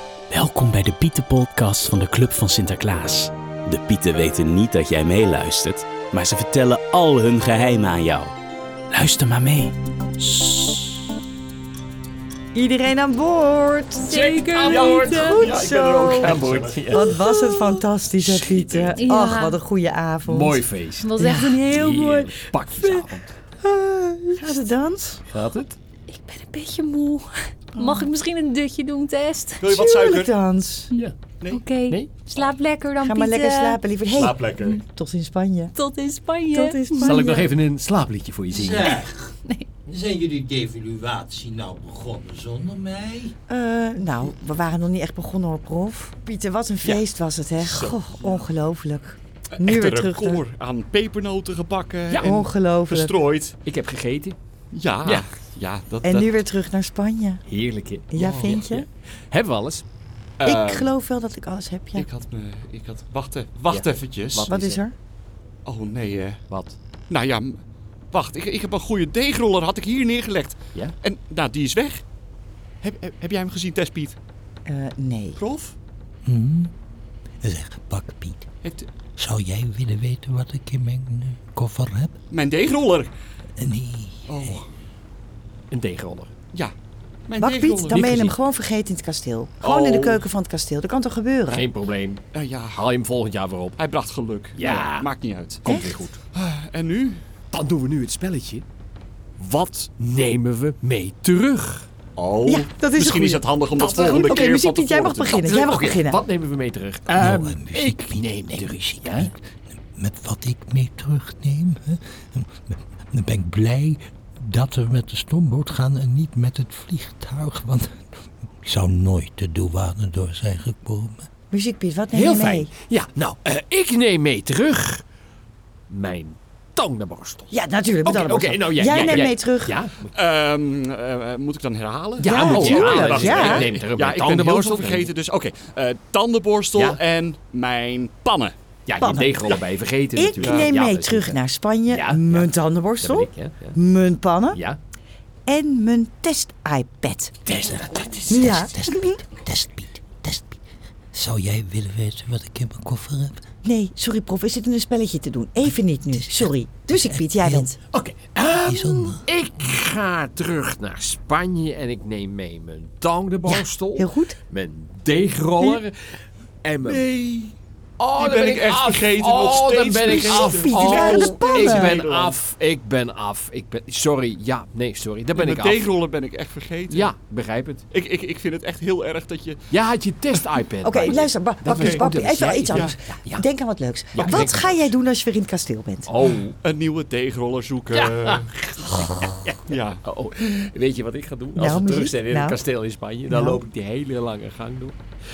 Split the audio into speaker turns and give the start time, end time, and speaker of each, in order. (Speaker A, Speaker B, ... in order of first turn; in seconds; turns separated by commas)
Speaker A: 0.3-8.3, Speaker A: 8.9-10.7, Speaker B: 12.5-16.4, Speaker C: 14.1-15.4, Speaker D: 14.1-17.5, Speaker E: 14.5-17.2, Speaker B: 16.9-20.6, Speaker D: 18.2-19.0, Speaker C: 18.9-19.6, Speaker D: 20.2-23.3, Speaker C: 21.0-22.3, Speaker B: 21.1-21.6, Speaker B: 22.7-23.0, Speaker B: 23.6-25.2, Speaker D: 25.3-25.8, Speaker C: 26.1-29.6, Speaker B: 27.8-28.1, Speaker E: 29.6-30.3, Speaker B: 29.7-30.9, Speaker C: 30.9-33.8, Speaker E: 31.4-31.6, Speaker D: 31.9-32.4, Speaker B: 33.0-35.7, Speaker E: 34.1-34.8, Speaker C: 35.7-37.4, Speaker B: 36.5-37.5, Speaker D: 37.0-39.0, Speaker F: 38.5-39.3, Speaker F: 39.9-43.3, Speaker B: 43.5-50.4, Speaker E: 47.7-48.0, Speaker E: 49.6-53.5, Speaker B: 52.2-53.1, Speaker D: 53.6-54.4, Speaker E: 54.7-56.4, Speaker B: 56.0-57.4, Speaker D: 57.5-59.8, Speaker B: 58.1-58.9, Speaker E: 58.1-58.6, Speaker E: 60.4-60.9, Speaker B: 60.4-62.1, Speaker E: 62.0-64.5, Speaker D: 63.7-64.8, Speaker B: 64.5-64.9, Speaker E: 65.6-66.4, Speaker D: 66.5-66.8, Speaker E: 67.1-67.6, Speaker E: 68.1-72.0, Speaker E: 72.8-74.2, Speaker B: 74.7-75.4, Speaker E: 75.4-75.8, Speaker F: 76.2-76.7, Speaker F: 77.4-78.5, Speaker F: 79.2-82.2, Speaker E: 82.3-83.1, Speaker F: 83.6-84.6, Speaker E: 84.3-84.6, Speaker D: 85.7-86.3, Speaker E: 87.3-88.2, Speaker B: 87.4-91.7, Speaker D: 87.9-88.4, Speaker E: 89.6-90.2, Speaker D: 91.5-93.8, Speaker E: 92.3-92.8, Speaker E: 93.8-95.6, Speaker D: 94.5-95.1, Speaker D: 95.6-96.2, Speaker B: 95.7-95.9, Speaker E: 96.3-97.2, Speaker D: 97.5-98.7, Speaker E: 99.4-99.9, Speaker D: 100.0-101.9, Speaker E: 102.2-105.8, Speaker B: 102.5-106.2, Speaker D: 103.9-104.3, Speaker D: 105.4-109.3, Speaker F: 107.1-118.1, Speaker F: 118.6-121.3, Speaker B: 121.5-122.7, Speaker D: 122.1-125.0, Speaker D: 125.9-130.1, Speaker B: 127.5-129.8, Speaker E: 130.1-138.5, Speaker D: 132.2-135.1, Speaker B: 132.2-133.7, Speaker D: 136.7-137.0, Speaker D: 138.9-143.8, Speaker B: 139.0-139.4, Speaker B: 140.1-144.6, Speaker E: 140.4-140.7, Speaker D: 144.5-144.8, Speaker B: 145.4-147.3, Speaker D: 147.4-148.6, Speaker B: 148.3-149.2, Speaker F: 148.3-150.6, Speaker F: 151.1-153.4, Speaker B: 153.6-157.8, Speaker F: 156.1-157.7, Speaker D: 157.9-165.9, Speaker F: 158.5-159.2, Speaker B: 163.4-164.4, Speaker D: 166.6-167.1, Speaker E: 166.8-167.5, Speaker D: 168.0-175.9, Speaker E: 168.2-172.3, Speaker B: 170.1-171.9, Speaker E: 175.3-177.1, Speaker D: 176.9-177.8, Speaker E: 177.9-179.7, Speaker D: 179.7-183.4, Speaker B: 180.8-186.2, Speaker E: 181.7-182.1, Speaker E: 182.7-182.9, Speaker D: 184.1-184.9, Speaker D: 186.1-186.6, Speaker E: 186.6-188.4, Speaker D: 187.9-195.0, Speaker F: 189.0-189.4, Speaker E: 189.7-190.0, Speaker B: 191.5-192.6, Speaker B: 193.3-193.6